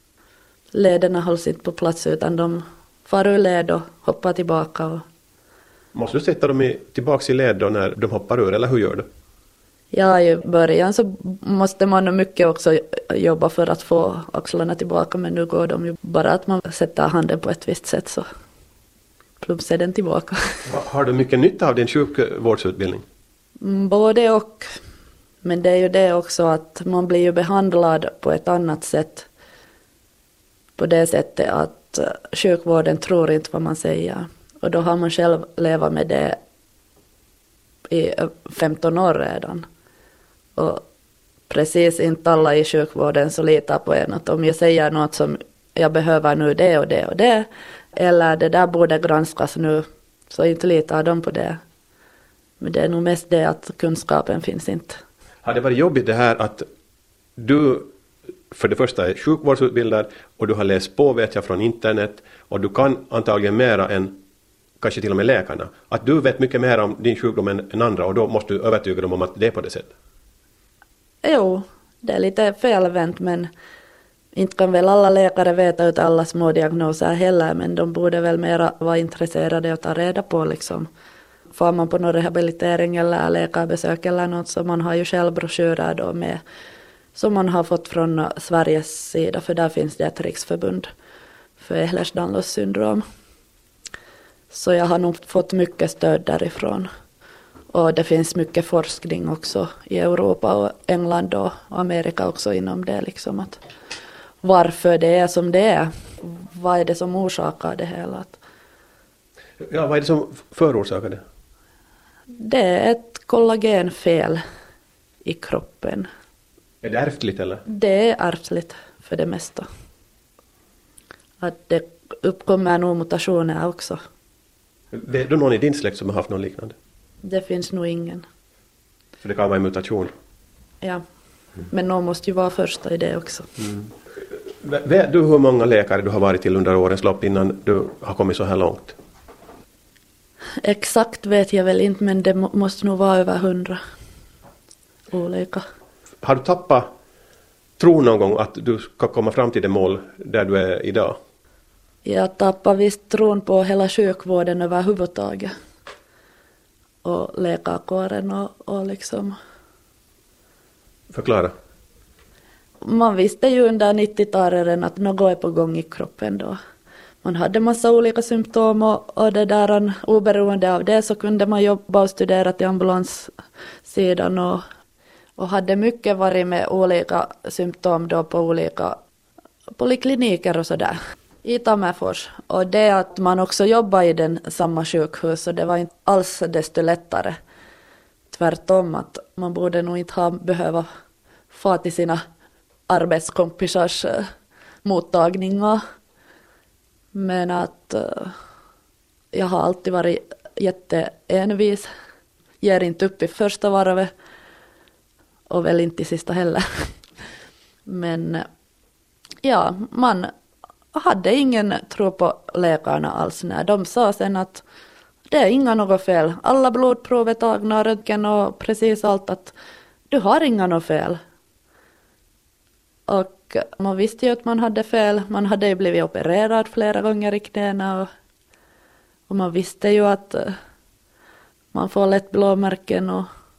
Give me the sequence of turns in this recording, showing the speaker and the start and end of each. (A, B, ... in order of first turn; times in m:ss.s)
0:00.7-0:05.0 A
0:05.9-0:09.1 B
0:09.9-0:18.2 A
0:19.4-0:20.6 A
0:20.6-0:23.0 B
0:23.6-0:24.7 A
0:25.4-0:29.3 A
0:30.8-0:36.4 A
0:37.9-0:39.6 A
0:40.6-0:40.8 A
0:41.5-0:51.6 A
0:52.6-0:55.0 A
0:55.4-0:56.7 B
0:57.4-0:57.9 B
0:58.5-1:04.2 B
1:04.8-1:09.9 B
1:11.2-1:13.5 A
1:14.3-1:20.9 A
1:21.5-1:26.4 A
1:27.1-1:30.9 A
1:31.6-1:33.0 A
1:34.5-1:36.9 A
1:37.7-1:43.6 A
1:44.4-1:48.4 A
1:49.6-1:51.2 B
1:52.4-1:54.4 A
1:55.2-1:56.1 A
1:56.8-1:57.6 B
1:57.6-1:59.6 A
2:01.4-2:04.0 A
2:04.9-2:06.8 B
2:07.2-2:08.2 A
2:09.2-2:10.1 B
2:11.7-2:13.5 A
2:13.6-2:13.9 B
2:14.6-2:18.9 B
2:20.6-2:23.8 A
2:25.1-2:25.6 A
2:26.2-2:26.9 B
2:27.8-2:31.2 B
2:32.0-2:35.5 A
2:37.0-2:39.3 A
2:41.1-2:41.5 B
2:42.8-2:46.6 A
2:47.2-2:53.3 A
2:53.8-2:54.6 A
2:55.4-2:59.0 A
2:59.8-3:07.4 A
3:08.3-3:10.8 A
3:11.5-3:12.2 A
3:12.9-3:14.3 A
3:14.8-3:15.8 A
3:17.1-3:18.3 A
3:19.3-3:21.9 A
3:22.6-3:24.1 A
3:25.5-3:26.9 A
3:27.9-3:28.5 A
3:29.4-3:30.3 A
3:30.9-3:34.6 A
3:35.3-3:39.5 A
3:40.1-3:41.2 A
3:43.1-3:48.1 A
3:49.3-3:50.5 A
3:51.7-3:53.3 A